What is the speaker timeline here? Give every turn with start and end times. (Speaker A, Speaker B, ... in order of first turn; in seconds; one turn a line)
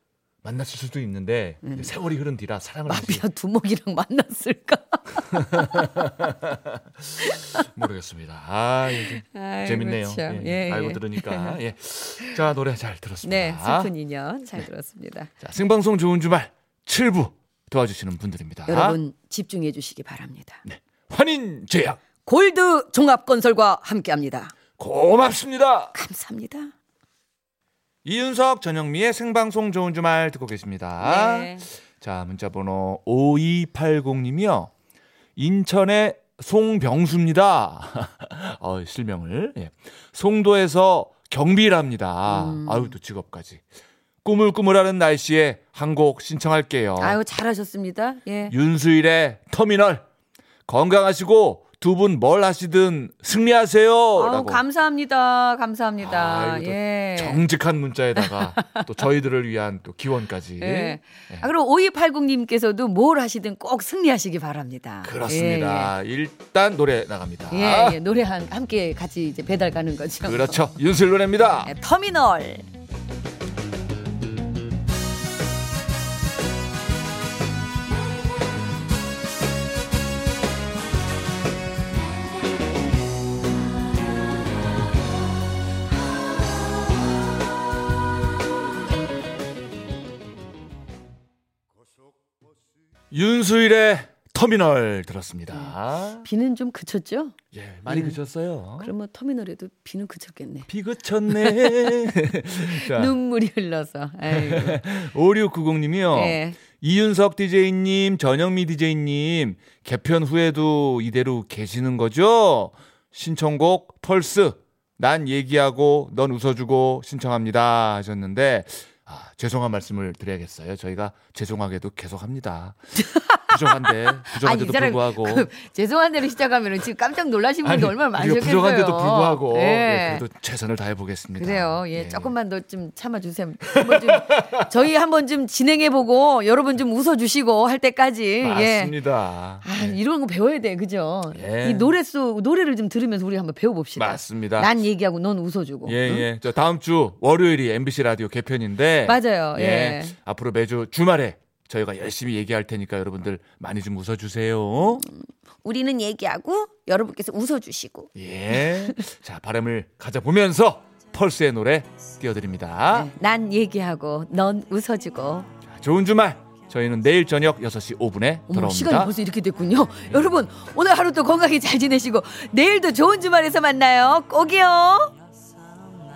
Speaker A: 0.4-3.3
Speaker B: 1.6-1.9
Speaker B: 2.9-6.1
Speaker A: 5.3-13.9
Speaker B: 8.9-11.6
Speaker B: 13.2-15.3
Speaker A: 15.4-19.0
Speaker B: 18.7-20.6
Speaker A: 20.7-22.0
Speaker B: 22.2-24.6
Speaker A: 24.8-25.9
Speaker B: 25.9-26.7
Speaker A: 28.1-34.7
Speaker B: 31.0-31.7
Speaker A: 35.4-43.6
Speaker B: 42.3-43.0
Speaker A: 44.2-47.2
Speaker B: 47.0-48.5
Speaker A: 48.5-50.0
Speaker A: 50.7-54.6
Speaker B: 54.1-57.4
Speaker A: 56.0-61.5
Speaker B: 58.2-59.0
Speaker B: 60.6-65.9
Speaker A: 65.0-68.0
Speaker B: 67.5-70.6
Speaker A: 70.2-71.7
Speaker B: 71.6-72.7
Speaker A: 93.1-96.3
Speaker B: 95.5-98.2
Speaker A: 97.5-98.9
Speaker B: 98.8-100.7
Speaker A: 100.7-103.2
Speaker B: 101.3-104.9
Speaker A: 104.3-122.8
Speaker B: 106.1-106.6
Speaker B: 123.0-130.2
Speaker A: 123.5-125.5
Speaker A: 127.6-132.3
Speaker B: 131.4-139.0
Speaker A: 133.7-134.5
Speaker A: 138.4-140.0
Speaker B: 139.6-146.3
Speaker A: 141.3-141.9
Speaker A: 144.0-144.7
Speaker A: 145.8-155.0
Speaker B: 149.1-150.2
Speaker B: 155.0-159.0
Speaker A: 158.2-163.1
Speaker B: 162.9-165.5
Speaker A: 165.7-169.1
Speaker B: 168.5-175.1